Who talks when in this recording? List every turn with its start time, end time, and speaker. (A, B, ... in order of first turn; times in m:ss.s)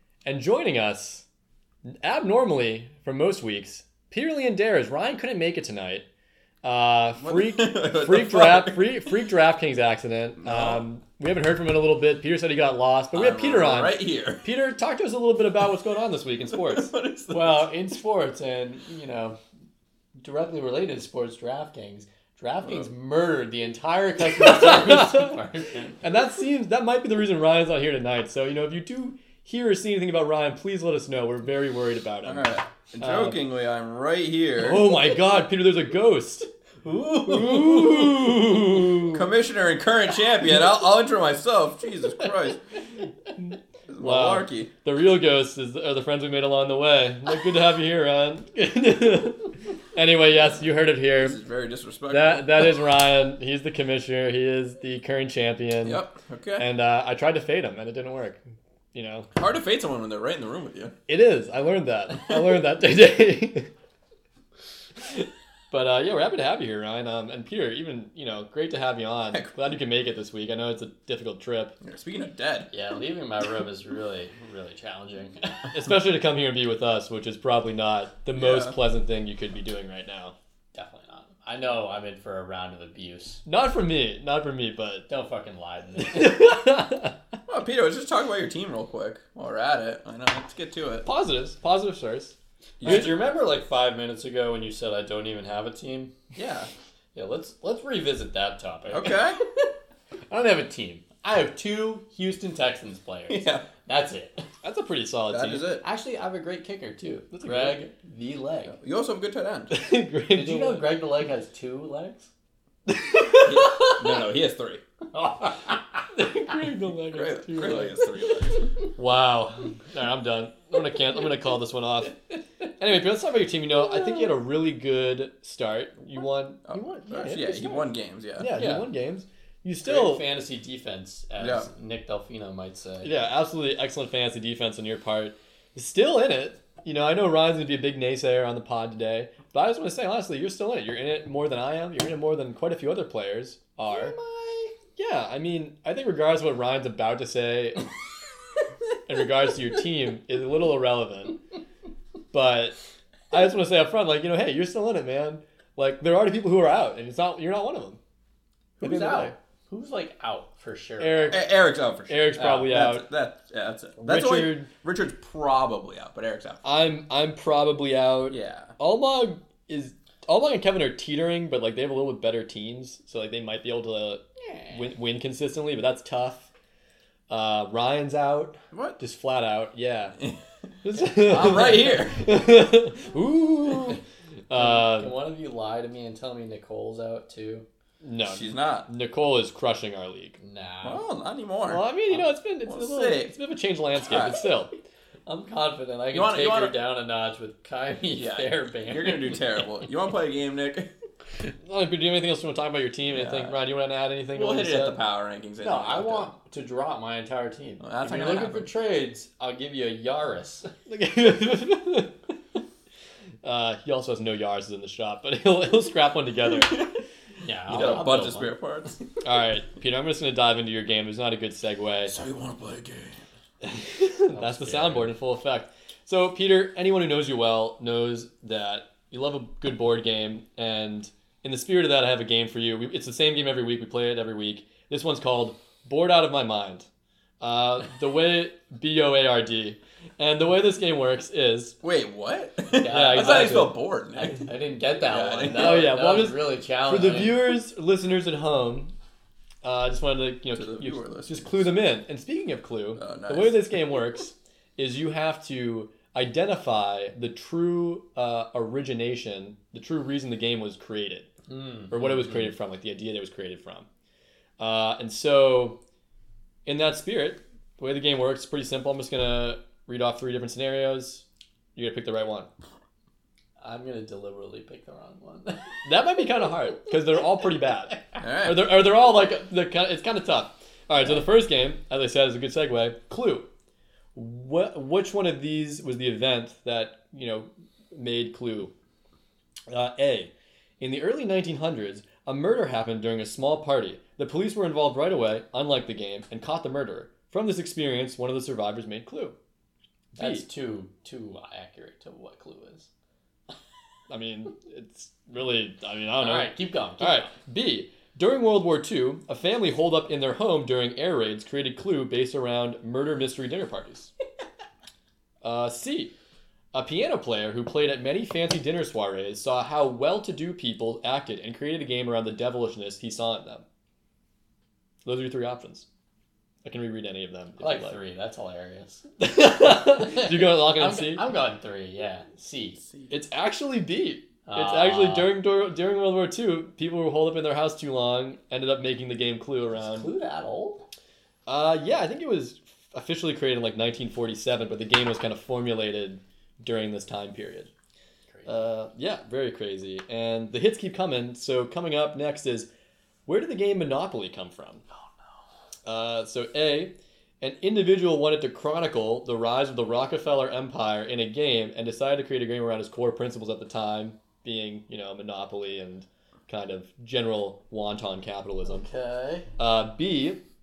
0:00.2-0:01.2 A
0:01.9-0:06.1 A
0:06.6-0:16.9 A
0:07.2-0:09.2 B
0:10.4-0:10.8 B
0:13.1-0:14.4 B
0:16.5-0:17.7 B
0:17.3-0:19.4 C
0:20.2-0:26.0 C
0:24.3-0:25.3 A
0:26.0-0:33.4 A
0:32.2-0:34.9 B
0:34.6-0:36.5 A
0:36.8-0:38.1 C
0:37.2-0:39.2 A
0:39.1-0:42.6 B
0:43.3-0:51.4 A
0:43.9-0:44.7 B
0:51.2-0:52.8 B
0:52.1-0:56.0 A
0:55.8-0:56.7 B
0:56.6-0:58.4 A
0:58.9-0:59.3 A
0:59.4-1:00.9 B
1:01.1-1:03.7 A
1:05.1-1:11.8 A
1:11.8-1:12.7 B
1:12.7-1:15.6 C
1:15.7-1:20.3 A
1:18.3-1:18.8 B
1:20.7-1:23.4 C
1:23.4-1:25.1 A
1:25.1-1:26.6 C
1:26.0-1:27.1 A
1:27.5-1:31.0 B
1:31.0-1:33.1 A
1:32.8-1:33.1 B
1:32.8-1:36.1 C
1:36.4-1:36.7 B
1:37.1-1:39.7 C
1:38.9-1:39.4 B
1:40.3-1:44.4 C
1:43.3-1:43.6 B
1:44.6-1:45.7 A
1:45.3-1:45.8 B
1:45.8-1:48.8 C
1:47.3-1:47.8 A
1:48.7-1:49.7 B
1:49.7-1:51.0 A
1:50.3-1:52.3 C
1:52.9-1:54.0 A
1:53.4-1:54.8 B
1:55.1-1:56.0 C
1:56.1-1:58.0 A
1:57.1-1:58.7 B
1:59.0-2:02.2 A
2:02.8-2:10.2 A
2:06.6-2:08.5 B
2:08.5-2:08.9 C
2:09.8-2:13.1 C
2:11.4-2:11.7 B
2:13.0-2:24.2 A
2:23.9-2:24.7 C
2:25.0-2:27.9 A
2:29.0-2:31.4 A
2:32.3-2:32.8 A
2:33.3-2:38.0 A
2:38.8-2:41.4 C
2:38.8-2:39.3 A
2:41.0-2:41.4 A
2:41.3-2:46.6 B
2:42.1-2:43.0 A
2:42.4-2:42.7 C
2:44.0-2:44.7 A
2:46.6-2:56.5 A
2:48.3-2:48.7 B
2:54.5-2:54.8 C
2:57.3-3:00.2 A
2:58.7-2:59.0 B
3:00.8-3:05.1 A
3:00.9-3:02.3 B
3:04.5-3:07.6 C
3:08.0-3:10.4 A
3:08.2-3:08.9 B
3:10.4-3:11.0 C
3:10.8-3:13.3 B
3:11.6-3:14.7 A
3:14.1-3:14.4 B
3:15.2-3:19.5 C
3:16.1-3:16.8 B
3:18.2-3:20.9 B
3:21.6-3:25.0 A
3:23.1-3:23.6 B
3:24.3-3:26.3 B
3:25.6-3:30.7 C
3:27.8-3:28.7 B
3:30.9-3:32.1 A
3:33.4-3:36.8 A
3:37.4-3:38.6 C
3:37.7-3:39.0 B
3:39.2-3:42.1 A
3:42.1-3:43.2 B
3:43.6-3:56.9 A
3:44.3-3:45.1 C
3:57.4-4:01.8 A
4:01.8-4:04.5 B
4:02.7-4:07.5 C
4:02.9-4:03.7 A
4:05.0-4:05.9 B
4:05.5-4:08.9 A
4:09.6-4:21.3 A
4:10.6-4:11.7 B
4:13.0-4:13.6 B
4:21.5-4:22.4 C
4:21.9-4:23.9 A
4:24.6-4:25.8 A
4:26.6-4:32.5 A
4:33.6-4:35.8 C
4:35.8-4:43.5 A
4:38.2-4:38.7 B
4:44.1-4:48.7 A
4:49.7-4:59.4 A
5:00.2-5:00.4 A
5:00.2-5:02.9 C
5:04.1-5:14.1 A
5:06.2-5:07.3 C
5:15.4-5:16.1 A
5:16.7-5:23.6 A
5:25.0-5:25.8 A
5:26.6-5:28.0 A
5:27.6-5:29.0 C
5:29.2-5:31.2 A
5:29.8-5:32.8 C
5:33.1-5:40.1 A
5:34.5-5:35.4 C
5:39.8-5:40.8 C
5:41.5-5:47.7 A
5:48.4-5:52.7 A
5:53.2-5:54.8 A
5:55.8-6:08.9 A
6:08.6-6:09.5 C
6:09.6-6:10.4 A